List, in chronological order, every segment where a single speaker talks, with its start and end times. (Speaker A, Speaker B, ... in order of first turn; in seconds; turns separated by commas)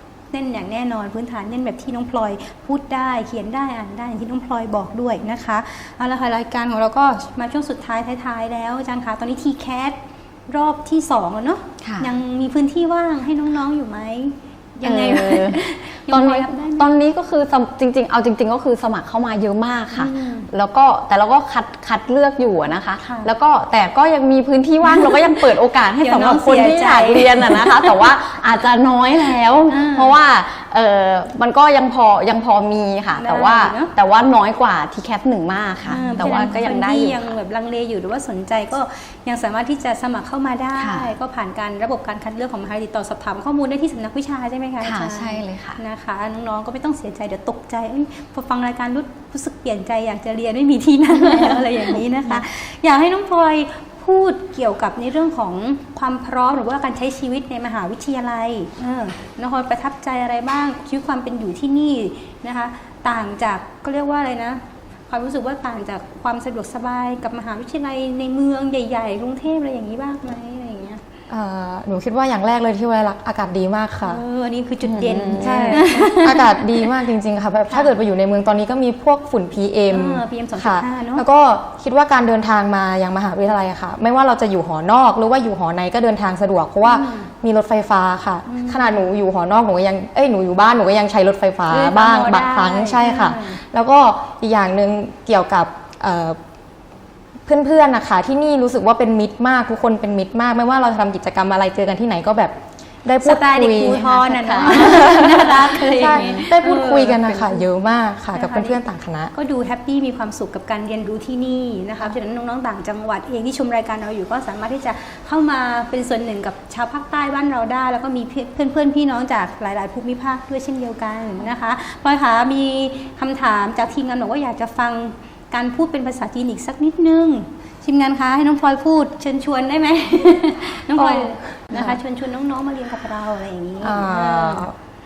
Speaker A: 0.3-16.9, Speaker B: 11.8-12.1, Speaker B: 14.8-37.2, Speaker A: 19.9-20.5, Speaker A: 23.0-23.3, Speaker A: 24.8-25.4, Speaker A: 26.0-28.1, Speaker A: 29.7-30.2, Speaker A: 33.2-33.9, Speaker A: 35.9-71.0, Speaker B: 40.8-41.1, Speaker B: 44.8-45.8, Speaker B: 51.2-51.6, Speaker C: 71.3-74.2, Speaker A: 74.0-76.9, Speaker B: 74.8-76.0, Speaker C: 75.4-96.4, Speaker A: 79.9-81.2, Speaker A: 86.8-87.3, Speaker A: 88.5-89.1, Speaker A: 91.7-93.6, Speaker C: 97.5-104.1, Speaker A: 103.2-107.7, Speaker B: 104.1-106.5, Speaker C: 104.8-109.3, Speaker A: 108.3-108.8, Speaker A: 109.3-134.7, Speaker C: 131.0-131.9, Speaker C: 133.8-134.7